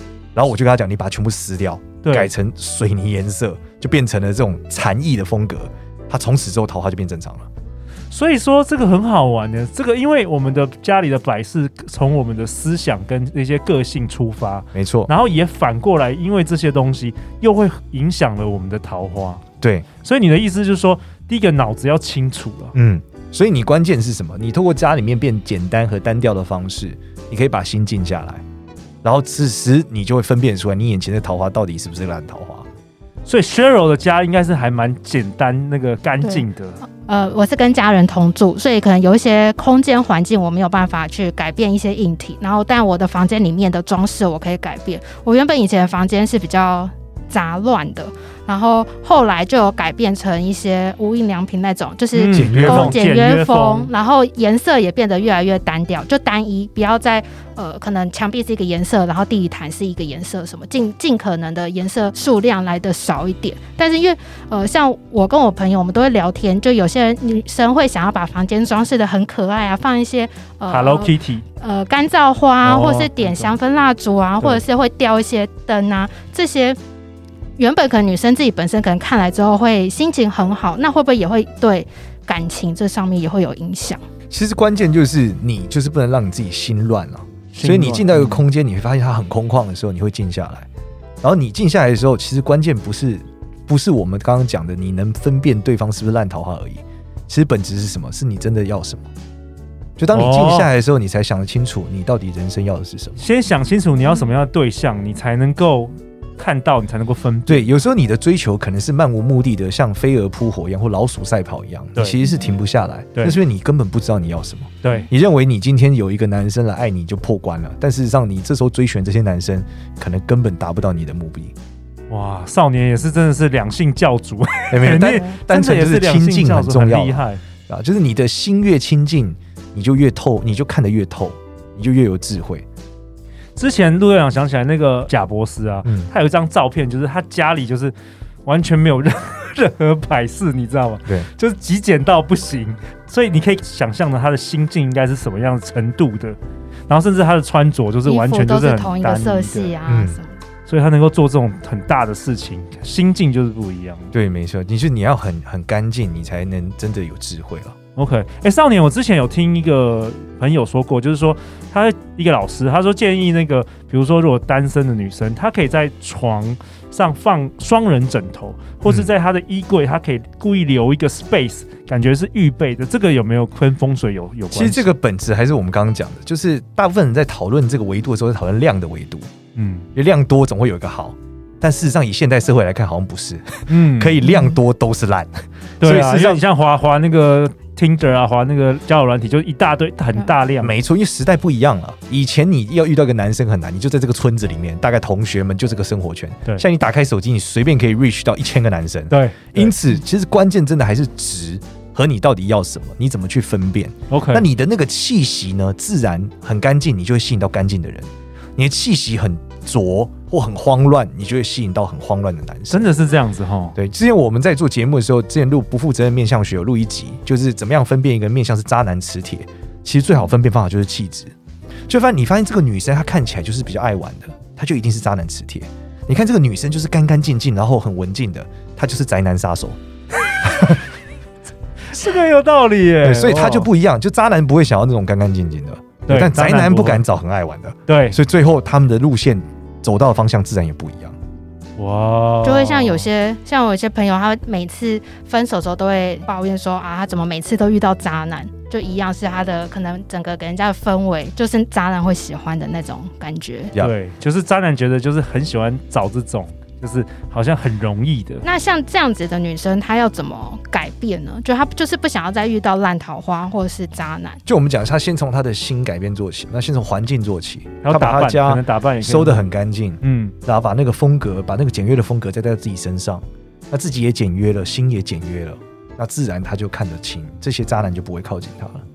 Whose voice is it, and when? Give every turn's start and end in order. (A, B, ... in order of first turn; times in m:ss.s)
0:00.4-0:07.5 A
0:02.0-0:02.3 B
0:08.1-0:19.4 B
0:14.7-0:15.1 A
0:20.0-0:22.7 B
0:22.8-0:28.4 A
0:29.0-0:32.7 A
0:33.3-0:36.8 B
0:37.0-1:16.8 C
0:52.1-0:53.9 B
0:52.3-0:53.0 A
1:10.7-1:11.4 B
1:12.6-1:13.5 B
1:17.6-1:24.0 C
1:24.3-1:30.7 A
1:27.5-1:28.4 B
1:31.2-1:39.1 A
1:40.0-1:43.2 A
1:40.1-1:40.7 B
1:43.2-1:47.7 B
1:47.5-2:01.5 A
1:54.8-1:55.1 B
2:02.1-2:07.4 B
2:04.7-2:12.7 A
2:13.6-2:17.9 B
2:15.8-2:16.1 A
2:18.5-2:26.4 B
2:26.9-2:29.7 B
2:28.0-2:30.4 C
2:29.9-2:30.2 A
2:30.7-2:34.1 B
2:34.1-2:37.8 A
2:38.0-2:54.9 B
2:54.5-2:59.3 A
2:59.6-2:59.9 B
3:00.0-3:06.4 A
3:03.7-3:04.4 B
3:05.8-3:10.8 B
3:10.6-3:32.9 A
3:19.1-3:19.8 B
3:24.1-3:24.5 B
3:32.7-3:33.8 B
3:33.8-3:41.3 A
3:41.9-3:49.8 A
3:50.4-3:50.8 A
3:51.9-3:53.7 B
3:53.0-4:01.2 A
3:56.1-3:57.0 B
3:57.9-3:58.2 B
4:01.8-4:03.0 B
4:02.4-4:13.7 C
4:13.8-4:18.4 B
4:18.4-4:24.4 C
4:24.5-4:38.8 A
4:27.8-4:29.5 B
4:30.0-4:30.3 B